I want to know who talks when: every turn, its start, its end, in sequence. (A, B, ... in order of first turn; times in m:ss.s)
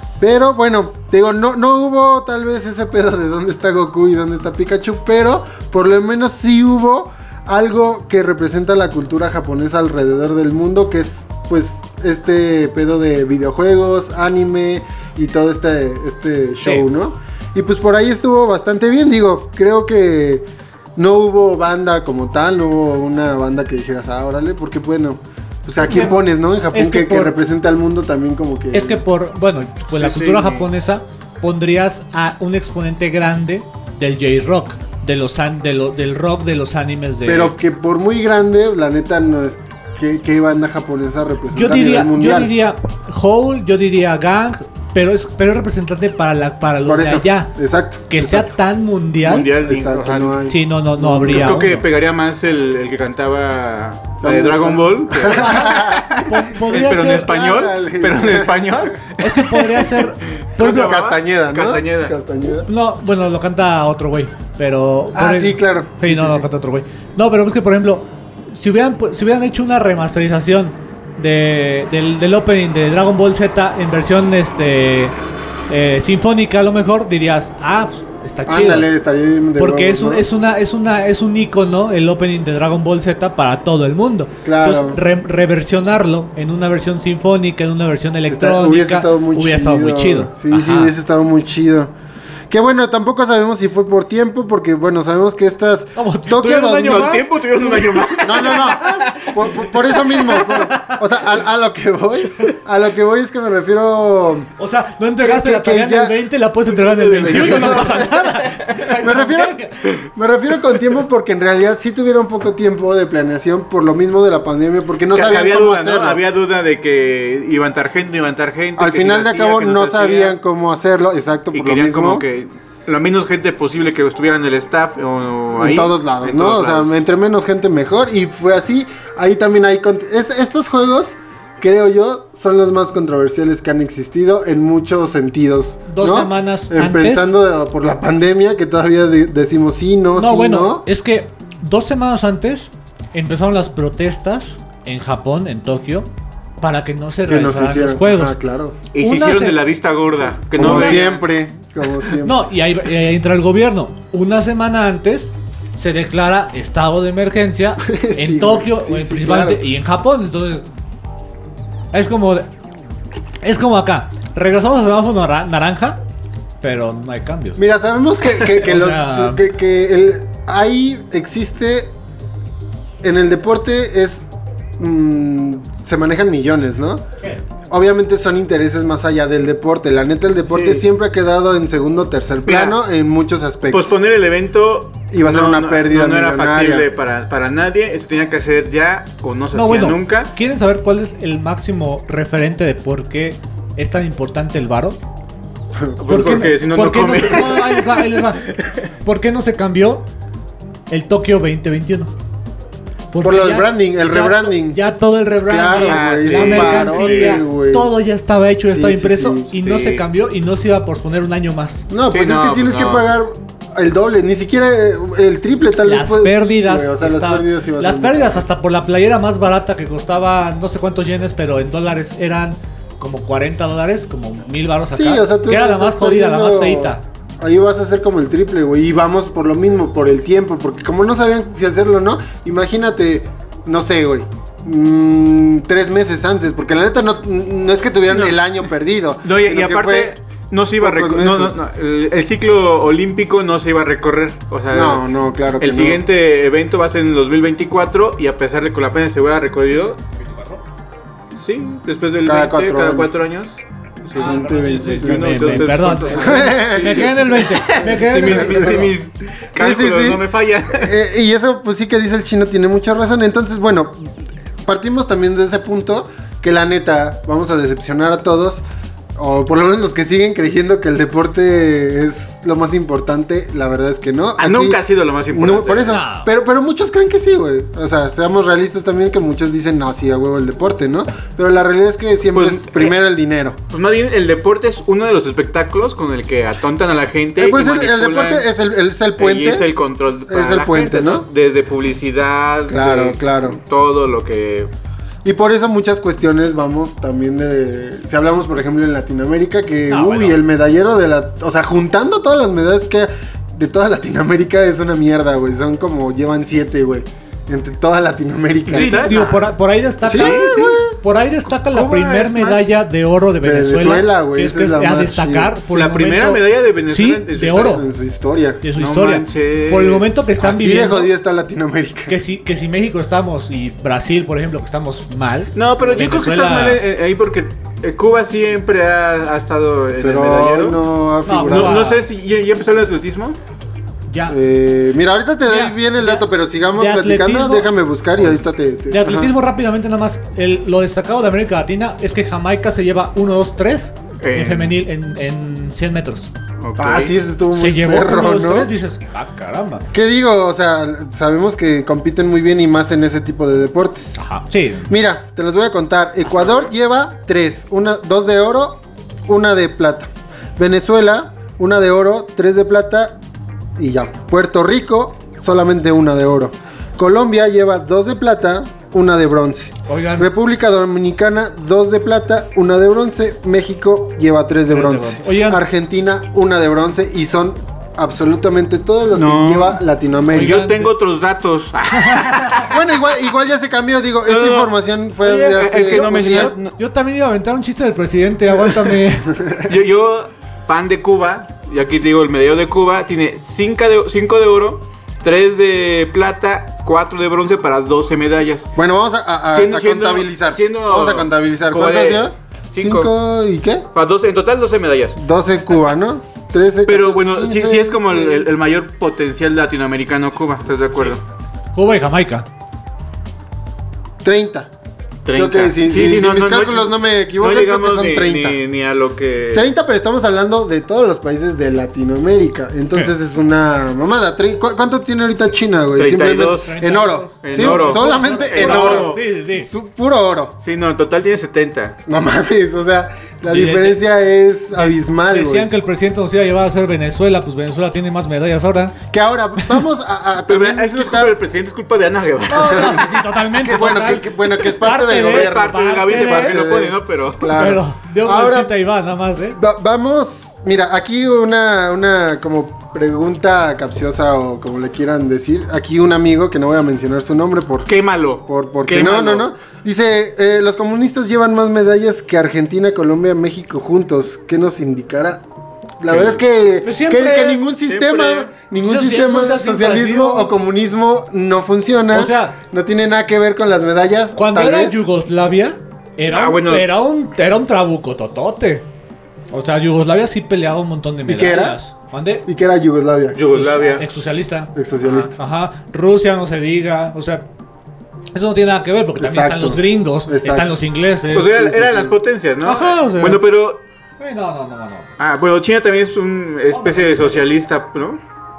0:00.2-0:29.0 A
0:25.8-0:26.2 B
0:26.7-0:27.4 B
0:28.7-0:37.6 B
0:30.0-0:30.7 C
0:37.2-0:42.5 A
0:41.5-0:47.5 B
0:46.8-0:48.6 A
0:48.1-0:49.5 B
0:49.2-0:50.4 C
0:49.2-0:51.6 A
0:50.5-0:51.8 B
0:51.2-1:02.1 C
0:54.2-0:58.9 A
0:55.3-0:57.3 B
0:59.2-1:01.0 B
1:00.6-1:02.7 A
1:02.7-1:15.1 B
1:05.1-1:06.5 A
1:15.7-1:18.9 B
1:18.4-1:20.2 A
1:19.6-1:30.9 B
1:24.4-1:25.0 A
1:28.3-1:31.9 A
1:32.5-1:37.2 A
1:36.0-1:39.0 B
1:36.8-1:39.3 C
1:38.2-1:44.5 A
1:40.1-1:41.0 B
1:44.6-1:50.0 B
1:45.2-1:46.2 A
1:46.7-1:48.8 C
1:47.3-1:48.0 A
1:48.9-1:56.2 A
1:55.1-2:00.4 C
1:58.8-2:02.2 A
2:01.5-2:07.0 C
2:05.6-2:20.9 A
2:15.9-2:17.3 B
2:20.2-2:26.1 B
2:26.6-2:28.4 B
2:27.2-2:28.8 A
2:28.9-2:31.2 C
2:29.0-2:29.6 B
2:30.5-2:32.4 A
2:30.6-2:31.0 B
2:32.2-2:40.6 B
2:37.8-2:39.6 A
2:41.9-2:42.5 B
2:43.4-2:46.0 B
2:46.6-2:47.6 B
2:47.6-2:51.9 A
2:48.5-2:49.4 B
2:53.0-2:57.0 A
2:57.7-3:04.0 A
3:00.5-3:00.8 C
3:02.4-3:02.8 C
3:03.7-3:10.3 C
3:05.1-3:06.9 A
3:09.5-3:15.0 B
3:15.8-3:16.5 A
3:16.0-3:18.9 C
3:16.0-3:18.5 B
3:19.0-3:20.0 B
3:20.9-3:22.1 B
3:23.1-3:31.9 B
3:23.2-3:24.8 A
3:25.3-3:27.9 A
3:25.8-3:27.4 C
3:28.6-3:29.5 A
3:29.6-3:30.0 C
3:31.9-3:38.5 A
3:32.1-3:33.1 C
3:35.8-3:47.0 B
3:44.9-4:00.2 A
3:59.2-4:05.0 C
4:00.8-4:01.6 A
4:04.7-4:06.0 A
4:05.6-4:10.0 C
4:10.2-4:10.6 B
4:11.4-4:20.9 C
4:12.2-4:13.2 A
4:14.1-4:18.9 B
4:14.2-4:19.0 A
4:19.5-4:24.1 A
4:24.6-4:28.6 A
4:29.2-4:43.6 A
4:34.4-4:36.0 C
4:35.9-4:36.3 B
4:42.3-4:43.0 C
4:43.7-4:48.5 C
4:47.4-4:49.7 A
4:49.2-4:54.7 C
4:50.3-4:51.3 A
4:52.7-4:53.6 A
4:55.2-5:09.1 A
4:59.9-5:00.4 B
5:08.7-5:09.5 C
5:08.7-5:17.8 B
5:10.0-5:10.9 A
5:10.0-5:10.8 C
5:11.6-5:12.7 C
5:13.4-5:15.5 A
5:15.7-5:17.8 C
5:17.6-5:18.6 A
5:18.6-5:21.1 B
5:18.8-5:20.2 C
5:20.4-5:22.2 A
5:22.1-5:26.8 B
5:25.5-5:30.8 C
5:30.0-5:31.8 A
5:31.2-5:32.0 B
5:31.5-5:33.4 C
5:34.1-5:34.4 B
5:34.3-5:39.3 A
5:35.4-5:37.7 B
5:38.9-5:46.3 B
5:44.2-5:44.8 C
5:46.6-5:47.1 C
5:46.8-5:48.7 A
5:47.5-5:49.8 B
5:49.9-5:54.2 A
5:54.2-5:54.9 B
5:54.9-6:03.2 A
5:56.4-5:56.7 C
6:03.8-6:20.6 A
6:09.9-6:10.3 B
6:14.7-6:15.6 B
6:19.1-6:19.8 C
6:20.3-6:20.9 B
6:20.3-6:22.8 C
6:21.9-6:22.6 B
6:22.6-6:26.5 A
6:24.2-6:24.7 C
6:25.2-6:29.3 B
6:25.4-6:26.7 C
6:28.6-6:29.0 C
6:29.6-6:38.7 C
6:38.8-6:43.8 A
6:39.5-6:43.1 C
6:43.9-6:45.2 C
6:45.2-6:48.5 A
6:46.9-6:51.2 C
6:51.7-6:52.5 B
6:54.2-6:54.7 A
6:55.2-6:59.7 C
6:55.3-6:58.6 A
6:59.5-7:10.5 A
7:06.0-7:06.9 C
7:06.6-7:09.7 B
7:07.4-7:09.2 C
7:10.6-7:12.0 C
7:12.1-7:15.7 A
7:13.5-7:14.0 B
7:14.7-7:18.9 B
7:19.1-7:21.4 A
7:20.5-7:23.1 C
7:22.5-7:26.6 B
7:22.7-7:28.8 A
7:25.1-7:27.6 C
7:27.5-7:29.6 B
7:29.6-7:37.9 A
7:37.8-7:39.5 C
7:38.4-7:45.4 A
7:46.0-7:55.0 A
7:46.1-7:46.4 C
7:46.8-7:47.6 B
7:47.8-7:48.5 C
7:48.8-7:50.5 B
7:52.1-7:52.6 B
7:54.4-7:58.8 B
7:56.3-7:56.9 C
7:59.5-8:02.4 B
8:01.2-8:01.8 A
8:02.4-8:03.4 A
8:03.3-8:04.0 C
8:03.5-8:04.7 B
8:04.7-8:05.3 A
8:05.0-8:05.3 C
8:05.3-8:07.5 B
8:08.3-8:11.5 B
8:09.2-8:10.8 A
8:11.3-8:13.8 C
8:11.4-8:12.2 A
8:12.6-8:13.4 B
8:14.2-8:15.1 B
8:15.2-8:18.2 C
8:16.7-8:17.5 B